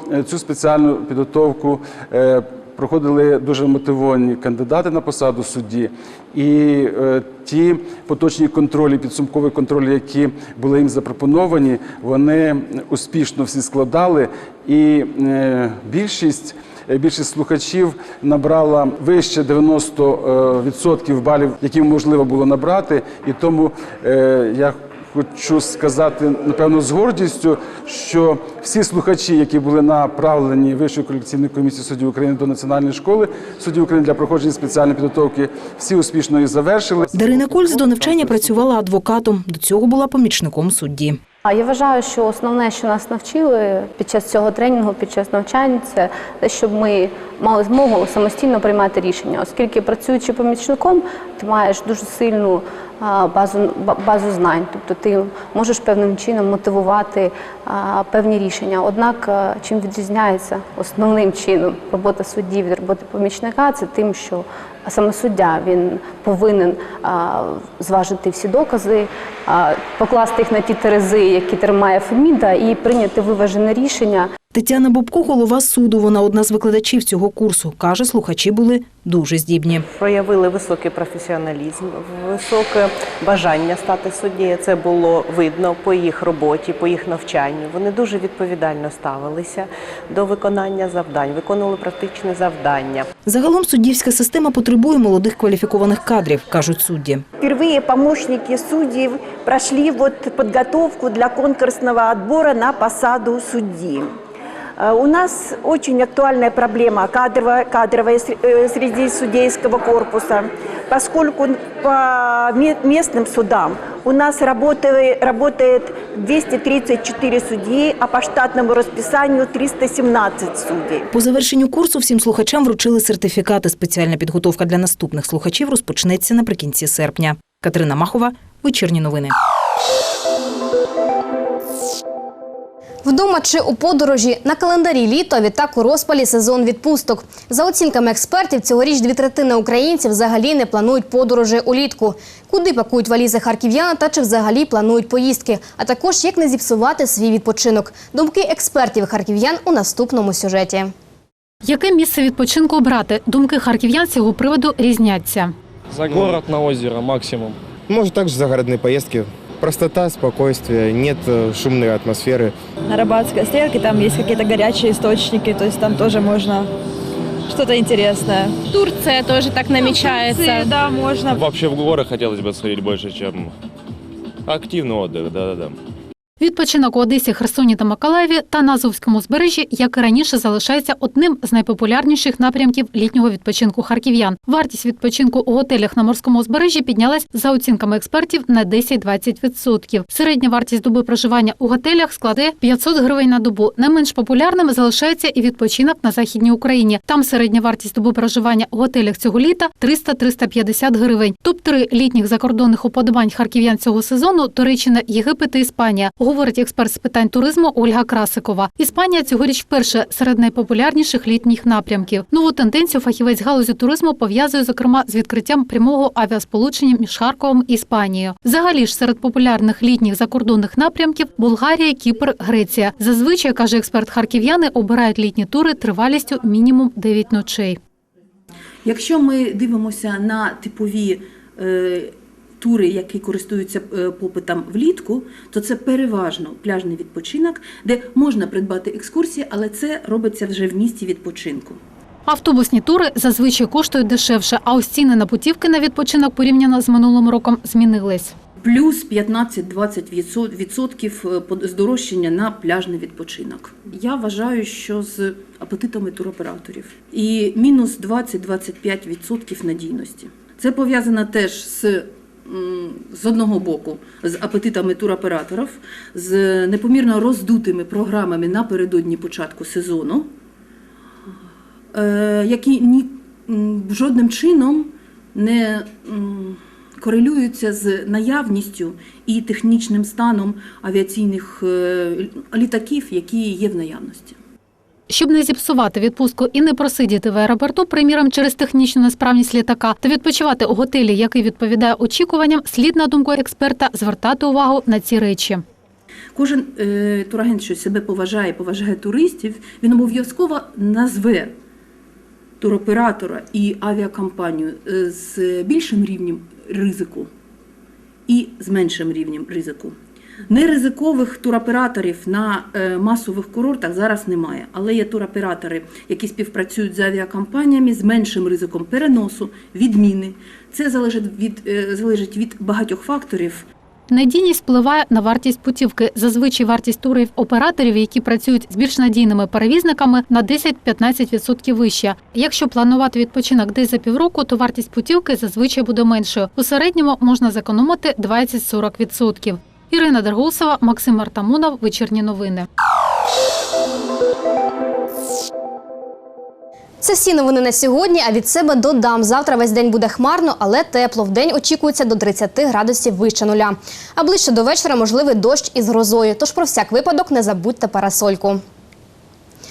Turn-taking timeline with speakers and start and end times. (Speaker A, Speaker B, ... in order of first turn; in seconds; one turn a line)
Speaker A: 0.1-37.1
Speaker B: 37.1-41.2
Speaker C: 41.5-74.3
Speaker B: 74.5-79.9
Speaker D: 79.9-93.1
Speaker B: 93.3-97.2
Speaker E: 97.4-104.1
Speaker E: 104.8-121.1
Speaker B: 121.1-129.3
Speaker F: 133.0-150.9
Speaker G: 151.6-155.5
Speaker H: 155.9-157.6
Speaker I: 157.9-162.6
Speaker J: 162.9-166.7
Speaker J: 167.5-168.6
Speaker K: 168.7-170.7
Speaker J: 169.9-171.4
Speaker H: 171.3-173.5
Speaker H: 174.5-175.8
Speaker G: 176.4-227.8
Speaker L: 228.8-241.8
Speaker G: 242.3-248.3
Speaker L: 248.6-270.3
Speaker L: 271.9-284.4
Speaker G: 285.1-295.6
Speaker L: 296.4-301.6
Speaker L: 302.6-307.3
Speaker L: 308.3-310.0
Speaker L: 310.5-323.7
Speaker G: 324.1-342.7
Speaker F: 347.0-358.6